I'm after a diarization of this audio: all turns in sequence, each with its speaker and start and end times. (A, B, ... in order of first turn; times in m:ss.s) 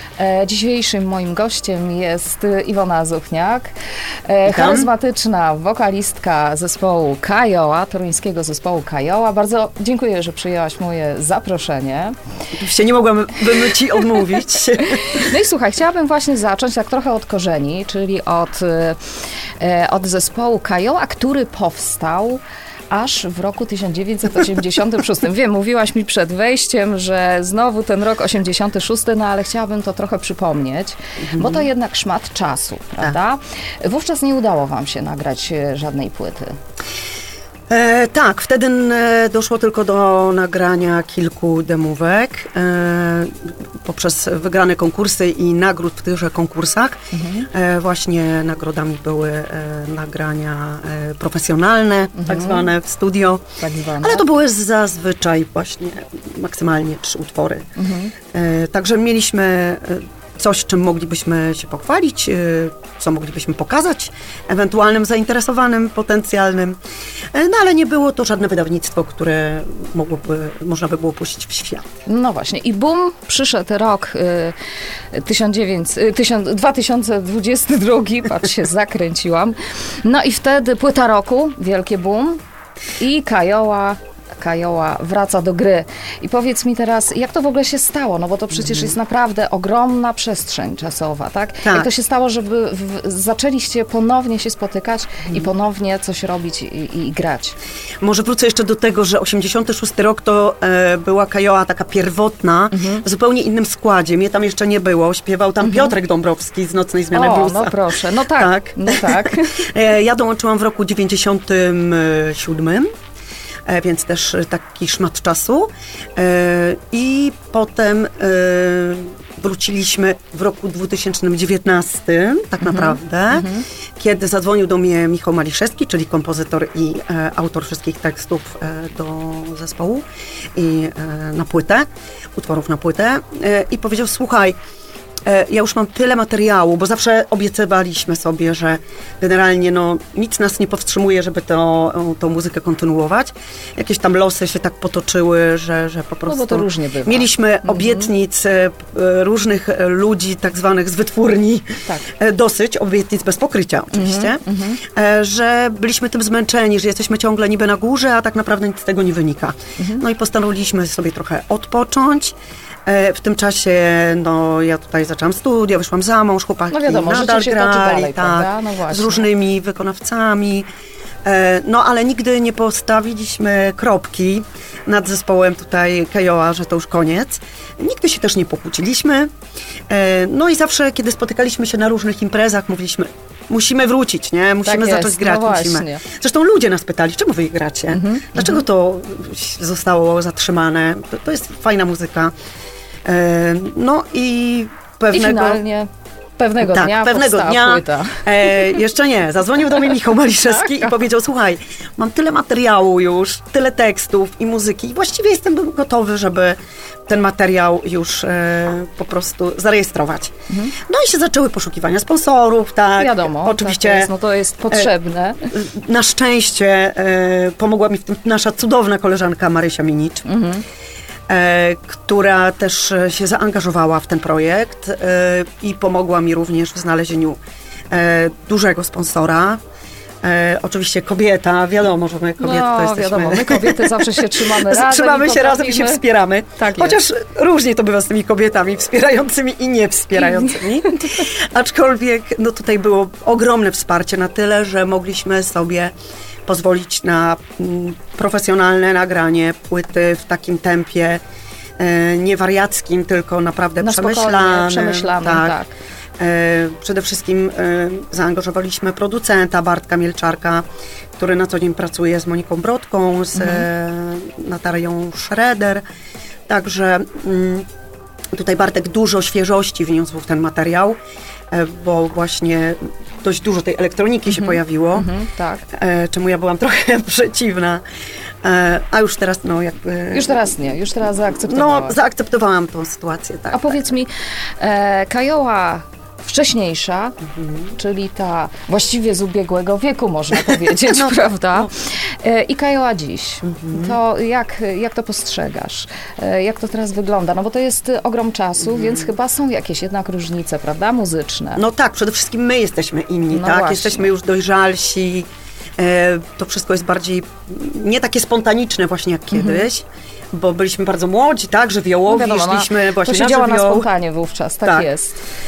0:00.2-0:03.7 A
0:04.3-0:12.1 A
0:04.5-0:04.9 B
0:12.6-0:15.3 B
0:14.8-0:19.0 A
0:19.6-0:36.6 A
0:31.2-0:31.7 B
0:37.7-0:47.0 B
0:47.1-0:47.5 A
0:47.5-0:53.4 B
0:52.1-0:52.7 A
0:53.6-0:54.3 A
0:54.0-0:57.6 B
0:57.8-0:58.1 A
0:58.3-1:06.8 B
1:07.3-1:11.8 B
1:12.1-1:14.6 A
1:15.1-1:22.4 A
1:23.0-1:37.6 A
1:28.5-1:29.0 B
1:31.6-1:31.9 B
1:38.0-1:47.8 B
1:42.7-1:43.0 A
1:45.6-1:45.9 A
1:47.1-1:49.6 A
1:48.4-1:52.9 B
1:53.7-2:10.0 B
2:02.6-2:03.6 A
2:10.6-2:14.6 B
2:15.2-2:42.3 B
2:26.3-2:28.1 A
2:33.9-2:34.8 A
2:39.8-2:40.0 A
2:42.8-2:50.7 B
2:46.7-2:49.3 A
2:51.2-2:59.3 B
2:59.9-3:12.3 B
3:04.6-3:06.0 A
3:07.9-3:08.6 A
3:13.0-3:15.6 B
3:15.1-3:18.7 A
3:16.6-3:30.3 B
3:20.5-3:20.9 A
3:30.5-3:30.8 A
3:30.9-3:34.1 B
3:33.0-3:35.5 A
3:35.5-3:40.3 B
3:40.2-3:40.6 A
3:41.3-3:47.4 B
3:47.9-3:49.6 B
3:50.2-4:05.9 B
3:52.4-3:56.0 A
3:56.6-3:57.0 A
4:00.2-4:01.2 A
4:06.5-4:11.2 B
4:11.8-4:15.6 B
4:13.8-4:15.7 A
4:16.2-4:20.6 B
4:21.2-4:25.8 B
4:23.4-4:23.7 A
4:26.5-4:27.6 B
4:28.3-4:31.0 B
4:31.5-4:35.1 B
4:34.3-4:35.6 A
4:35.7-4:37.8 B
4:38.4-4:40.6 B
4:40.1-4:42.0 A
4:41.4-4:44.0 B
4:43.5-4:47.2 A
4:47.3-4:47.8 B
4:47.8-5:01.6 A
4:50.5-4:51.7 B
4:53.4-4:54.0 B
4:58.6-4:59.1 B
5:01.6-5:13.9 B
5:03.3-5:04.1 A
5:09.3-5:09.6 A
5:12.1-5:15.2 A